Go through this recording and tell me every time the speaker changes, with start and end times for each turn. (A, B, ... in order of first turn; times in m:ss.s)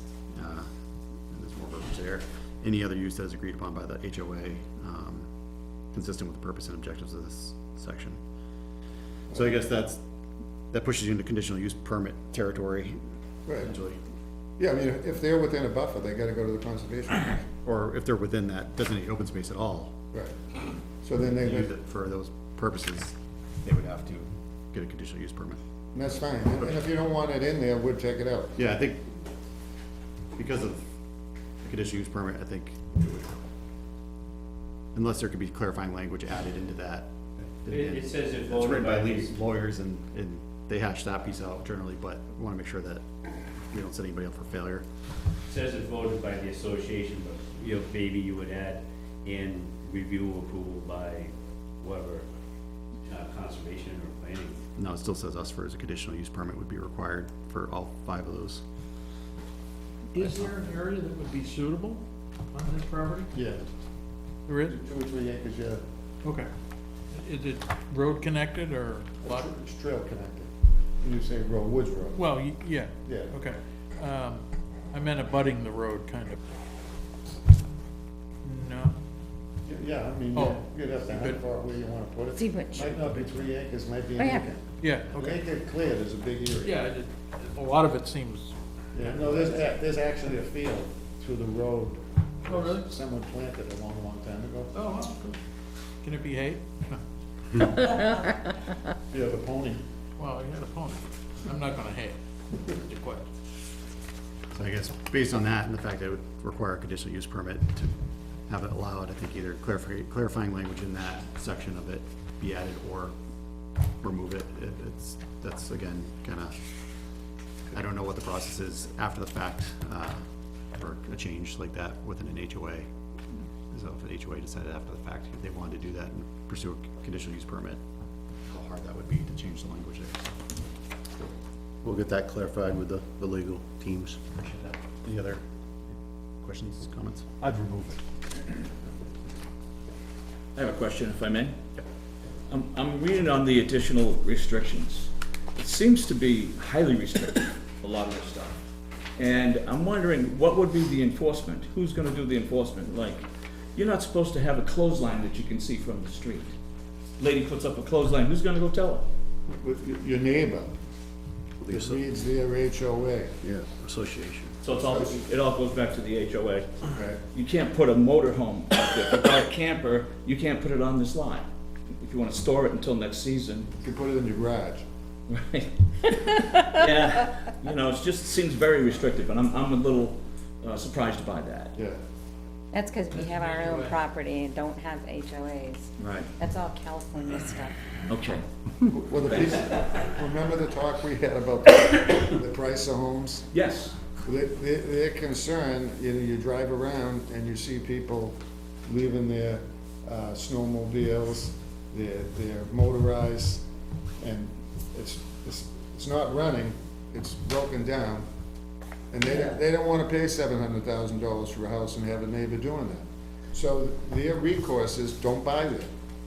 0:00.3-0:00.7 A
0:01.3-0:05.3 A
0:05.9-0:08.2 A
0:09.3-0:10.0 A
0:10.7-0:13.0 A
0:13.4-0:13.7 B
0:13.6-0:14.0 A
0:14.6-0:17.4 B
0:17.6-0:19.9 A
0:21.0-0:21.7 B
0:21.4-0:25.6 A
0:25.9-0:28.5 B
0:28.6-0:29.2 A
0:30.4-0:30.9 A
0:31.6-0:33.4 A
0:34.9-0:43.1 A
0:37.7-0:39.4 C
0:43.7-0:44.8 A
0:45.5-0:52.3 C
0:53.0-0:54.6 C
0:54.8-0:58.6 A
1:00.1-1:03.3 D
1:00.2-1:00.8 A
1:03.3-1:03.6 B
1:04.5-1:04.8 D
1:04.6-1:05.8 B
1:06.2-1:06.5 D
1:07.1-1:09.5 D
1:09.2-1:10.5 B
1:11.0-1:12.2 B
1:12.2-1:16.4 D
1:13.0-1:13.3 B
1:18.4-1:18.9 D
1:19.7-1:26.9 B
1:20.3-1:21.4 D
1:22.3-1:22.9 E
1:24.2-1:24.4 E
1:24.8-1:25.4 D
1:26.6-1:28.5 D
1:28.9-1:34.7 B
1:32.5-1:32.9 D
1:34.7-1:35.4 D
1:36.0-1:37.0 D
1:39.1-1:39.8 B
1:40.2-1:43.2 D
1:44.5-1:47.9 A
1:48.5-1:53.1 A
1:54.0-1:56.6 A
1:57.7-2:00.2 A
2:00.7-2:02.9 A
2:03.7-2:07.8 A
2:08.5-2:10.3 A
2:11.8-2:14.2 F
2:14.4-2:15.4 A
2:16.4-2:17.4 A
2:17.4-2:17.9 F
2:20.6-2:21.6 G
2:22.5-2:28.6 G
2:29.2-2:36.5 G
2:37.2-2:39.0 G
2:39.6-2:40.7 B
2:41.6-2:42.0 F
2:41.7-2:43.4 B
2:43.4-2:44.5 F
2:44.6-2:46.7 G
2:44.7-2:45.2 B
2:46.9-2:47.2 B
2:47.3-2:51.4 G
2:52.0-2:53.7 G
2:53.8-2:54.8 B
2:55.3-3:01.7 G
3:02.7-3:07.8 E
3:03.1-3:03.9 D
3:06.0-3:06.3 G
3:08.1-3:10.0 G
3:08.9-3:13.5 B
3:13.5-3:13.9 G
3:14.2-3:23.6 B
3:24.2-3:28.2 B
3:29.1-3:35.9 B